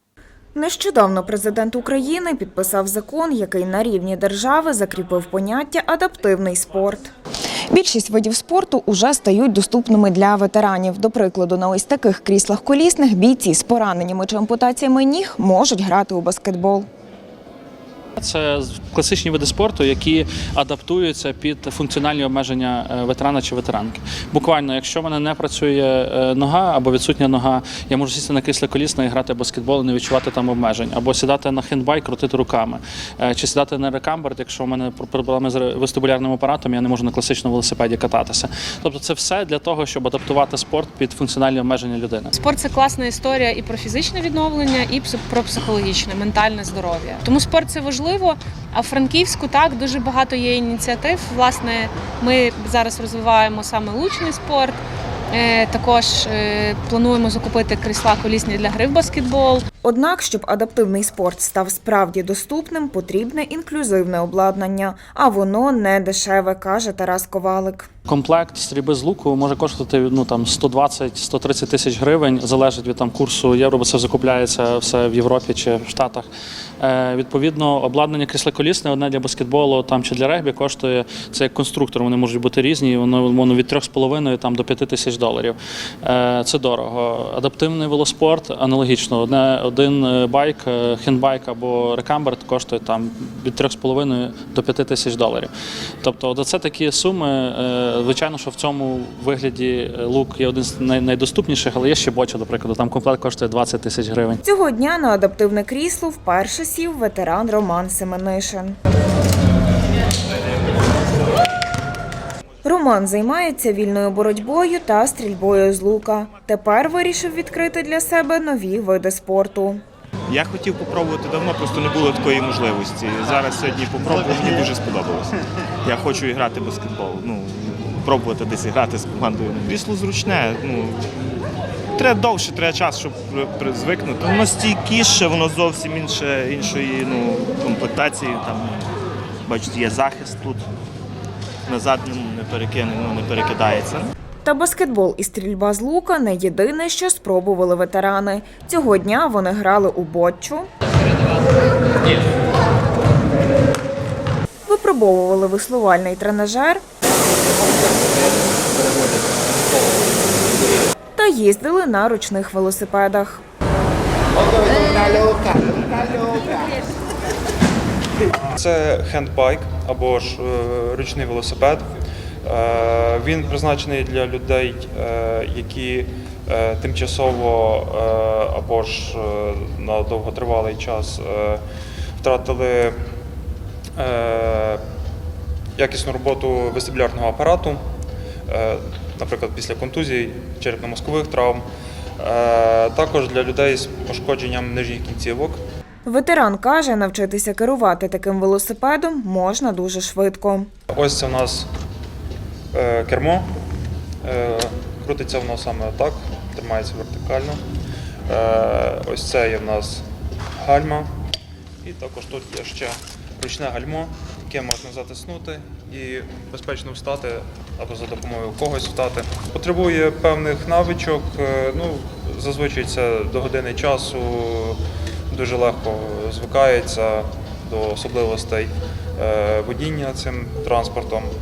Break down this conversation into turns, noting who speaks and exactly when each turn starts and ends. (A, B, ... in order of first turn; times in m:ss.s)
0:00.6-0:07.1 A
0:07.7-0:16.9 A
0:18.2-0:42.3 B
0:42.3-0:54.8 C
0:55.3-0:59.6 C
0:59.8-1:07.9 A
1:08.1-1:16.3 B
1:16.8-1:35.5 B
1:36.0-1:44.4 B
1:44.4-1:48.8 A
1:52.6-1:59.8 A
2:00.3-2:05.3 D
2:05.8-2:11.4 D
2:12.0-2:18.9 D
2:19.5-2:20.6 D
2:21.7-2:24.1 D
2:24.4-2:30.7 A
2:34.7-2:36.8 A
2:41.2-2:43.4 A
2:48.5-2:51.8 E
2:52.4-3:01.6 E
3:02.2-3:03.0 E
3:04.0-3:04.8 E
3:05.8-3:07.8 E
3:08.5-3:11.6 E
3:12.2-3:15.6 E
3:16.1-3:20.7 A
3:20.9-3:21.7 E
3:22.7-3:23.5 E
3:24.2-3:27.6 E
3:28.3-3:30.0 E
3:30.6-3:31.1 E
3:31.8-3:51.3 E